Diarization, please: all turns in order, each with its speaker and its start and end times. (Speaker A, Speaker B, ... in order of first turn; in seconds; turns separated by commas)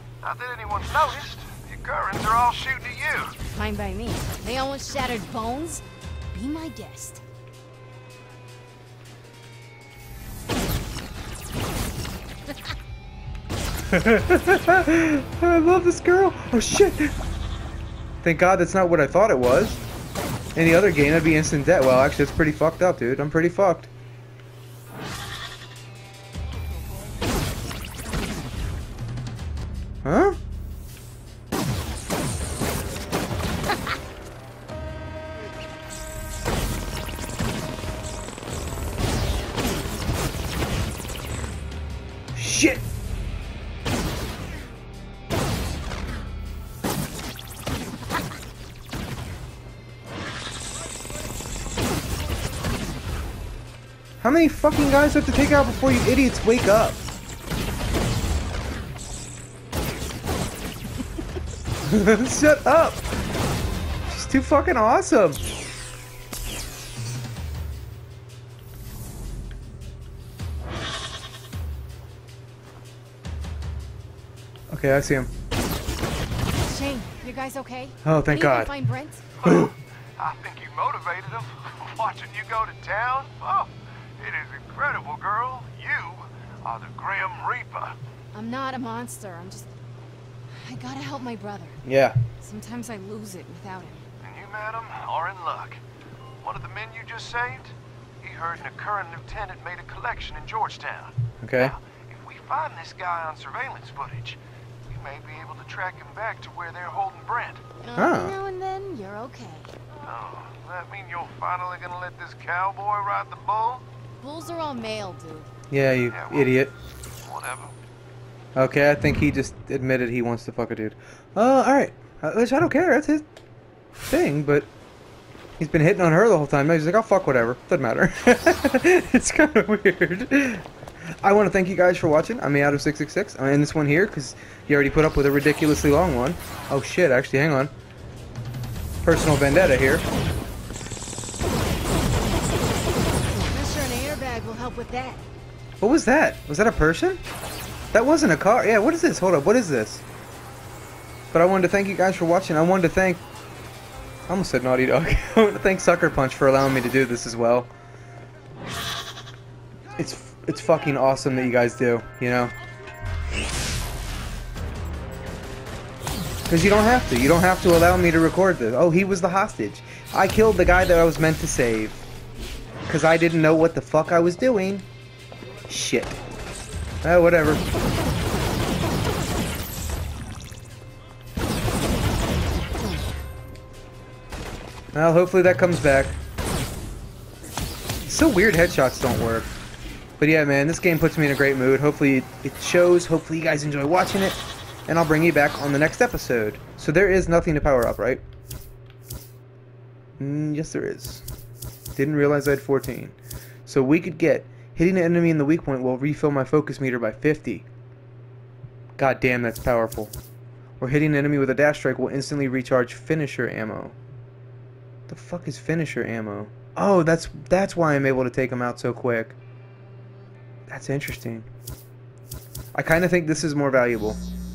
Speaker A: 0.2-3.4, Speaker B: 3.5-7.2, Speaker C: 13.9-17.1, Speaker C: 18.2-19.8, Speaker C: 20.5-23.9, Speaker C: 30.0-30.4, Speaker C: 42.3-42.8, Speaker C: 54.2-57.0, Speaker C: 61.8-63.1, Speaker C: 64.0-65.4, Speaker C: 74.7-75.3, Speaker B: 76.6-79.3, Speaker C: 78.0-78.7, Speaker C: 79.4-79.7, Speaker A: 79.4-88.0, Speaker B: 88.3-89.7, Speaker B: 90.5-91.8, Speaker C: 91.8-92.2, Speaker B: 92.4-94.0, Speaker A: 94.2-95.8, Speaker A: 96.4-107.6, Speaker C: 101.4-101.7, Speaker B: 107.8-109.7, Speaker C: 108.0-108.3, Speaker A: 110.0-113.8, Speaker B: 114.2-115.5, Speaker C: 115.7-116.7, Speaker A: 116.1-116.6, Speaker A: 117.2-117.7, Speaker C: 118.5-123.2, Speaker C: 124.0-124.7, Speaker C: 125.6-130.7, Speaker C: 131.2-137.7, Speaker C: 139.0-140.1, Speaker B: 143.5-145.2, Speaker C: 145.8-147.2, Speaker C: 147.9-150.0, Speaker C: 151.3-153.2, Speaker C: 154.3-157.7, Speaker C: 160.0-162.5, Speaker C: 166.5-172.1, Speaker C: 172.9-174.8, Speaker C: 175.7-176.2, Speaker C: 177.0-177.6, Speaker C: 184.9-186.2, Speaker C: 188.1-189.5, Speaker C: 190.2-198.2, Speaker C: 200.2-201.2, Speaker C: 201.9-207.7, Speaker C: 209.0-210.1, Speaker C: 210.8-213.9, Speaker C: 215.1-219.3, Speaker C: 220.7-221.5, Speaker C: 222.7-224.2